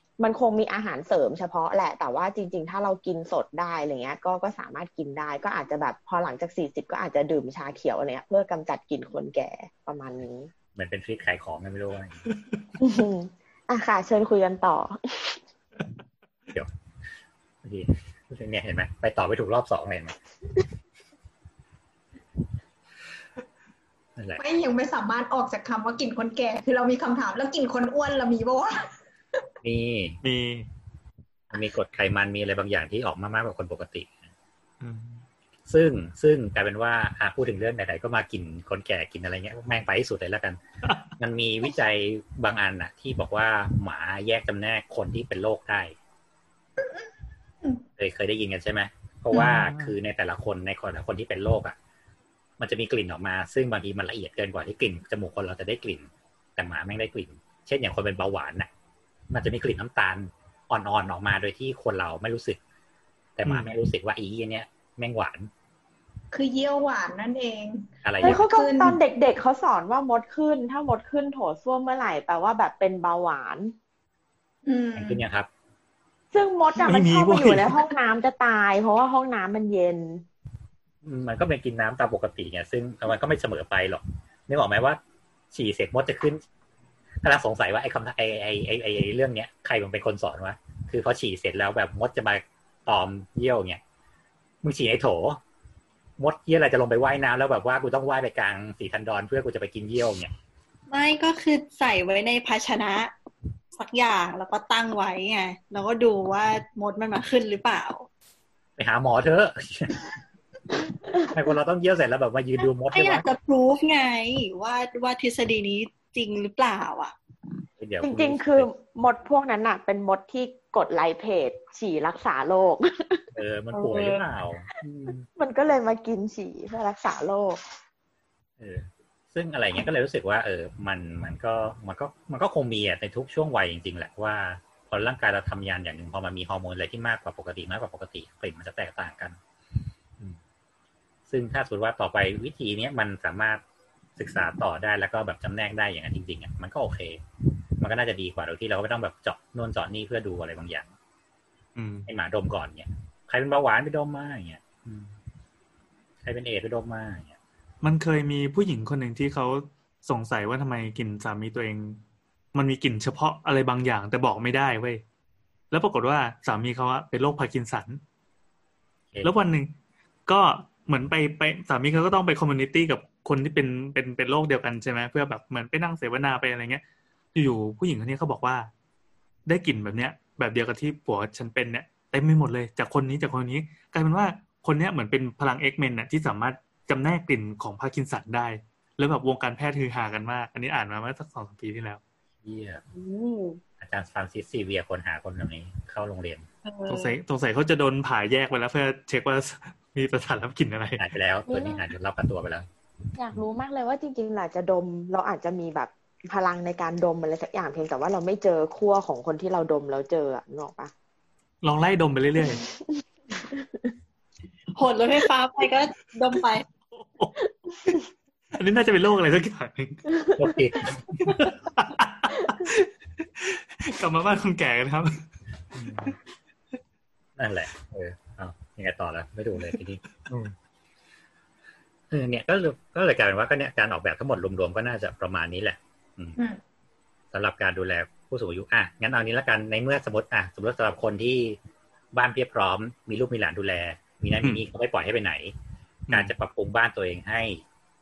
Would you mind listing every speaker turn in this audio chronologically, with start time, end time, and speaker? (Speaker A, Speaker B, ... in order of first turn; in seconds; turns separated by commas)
Speaker A: 0.2-10.5, Speaker B: 10.8-12.3, Speaker A: 12.8-15.4, Speaker B: 17.6-20.2, Speaker C: 24.4-28.9, Speaker B: 29.6-30.2, Speaker D: 30.2-30.7, Speaker B: 31.5-34.3, Speaker D: 34.8-35.2, Speaker B: 35.7-40.6, Speaker D: 40.9-41.1, Speaker B: 41.2-46.0, Speaker B: 48.0-51.8, Speaker D: 49.3-50.0, Speaker B: 52.6-58.7, Speaker B: 59.3-62.6, Speaker B: 63.4-65.5, Speaker D: 63.5-63.7, Speaker C: 66.3-69.0, Speaker B: 68.0-68.4, Speaker A: 68.2-73.8, Speaker C: 74.7-75.2, Speaker B: 75.0-75.5, Speaker A: 76.3-80.2, Speaker D: 76.8-77.8, Speaker B: 81.0-85.0, Speaker B: 85.5-86.4, Speaker B: 87.2-93.8, Speaker B: 94.6-95.4, Speaker B: 96.2-100.3, Speaker E: 100.9-103.1, Speaker E: 103.7-108.1, Speaker B: 108.8-110.0, Speaker B: 111.3-113.3, Speaker E: 112.9-117.2, Speaker B: 117.8-118.7, Speaker A: 118.0-123.3, Speaker B: 123.3-125.3, Speaker E: 123.9-124.1, Speaker A: 125.4-127.6, Speaker B: 128.6-139.4, Speaker B: 141.3-143.6, Speaker B: 144.2-147.2, Speaker B: 147.8-150.9, Speaker D: 151.8-152.1, Speaker B: 152.1-155.1, Speaker B: 156.2-157.3, Speaker D: 157.8-162.0, Speaker D: 162.5-165.0, Speaker D: 165.7-168.0, Speaker D: 169.2-169.7, Speaker D: 170.3-176.8, Speaker D: 177.3-178.7, Speaker D: 179.5-192.0, Speaker B: 192.4-192.8, Speaker E: 192.9-193.6, Speaker B: 193.8-196.5, Speaker E: 196.6-197.2, Speaker D: 196.9-201.0, Speaker B: 201.0-202.7, Speaker A: 201.5-201.8, Speaker A: 203.2-210.9, Speaker D: 211.6-212.6, Speaker E: 214.8-216.7, Speaker D: 216.9-217.4, Speaker D: 218.6-220.1, Speaker B: 220.4-221.5, Speaker D: 221.2-225.2, Speaker B: 225.7-226.2, Speaker B: 227.4-230.6, Speaker B: 232.1-236.4, Speaker B: 237.3-241.6, Speaker B: 242.1-245.6, Speaker B: 246.1-247.6